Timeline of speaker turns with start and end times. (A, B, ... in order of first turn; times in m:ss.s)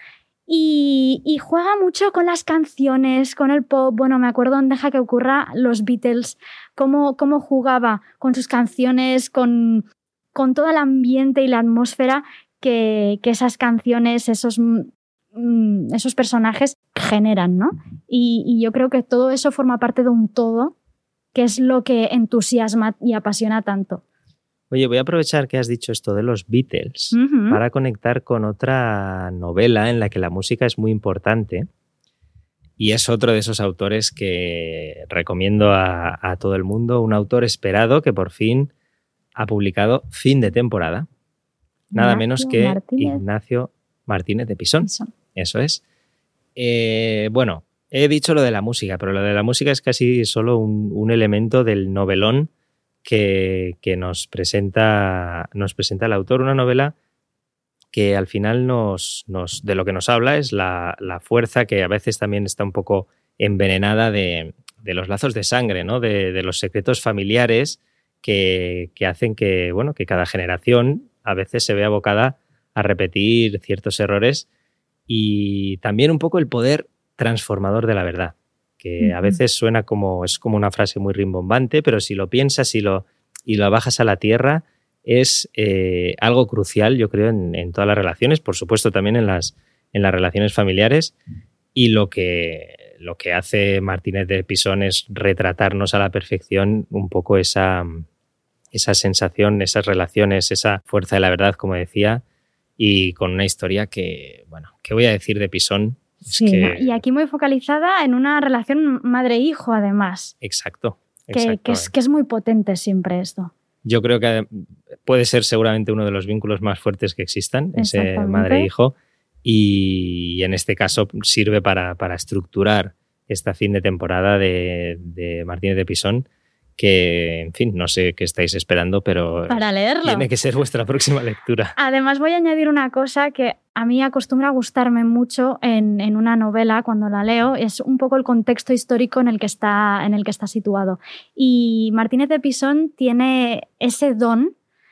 0:00.5-0:20.7 A
0:21.3-0:24.0 A
0:24.7-0:31.7 B
0:27.1-0:27.6 A
0:32.8-0:38.7 B
0:39.4-0:41.1 B
0:41.9-0:43.2 A
0:41.9-0:45.8 B
0:44.8-0:45.1 A
0:46.6-0:52.5 B
0:53.0-0:56.9 B
0:57.9-1:14.4 B
1:15.1-1:31.1 B
1:19.0-1:19.4 A
1:31.7-1:38.0 B
1:38.7-1:42.2 B
1:42.8-1:47.0 B
1:46.2-1:50.3 A
1:50.4-1:51.9 B
1:51.3-1:53.5 A
1:53.8-2:06.2 B
1:57.8-1:58.7 A
2:06.8-2:11.7 B
2:09.5-2:10.3 A
2:11.8-2:24.5 A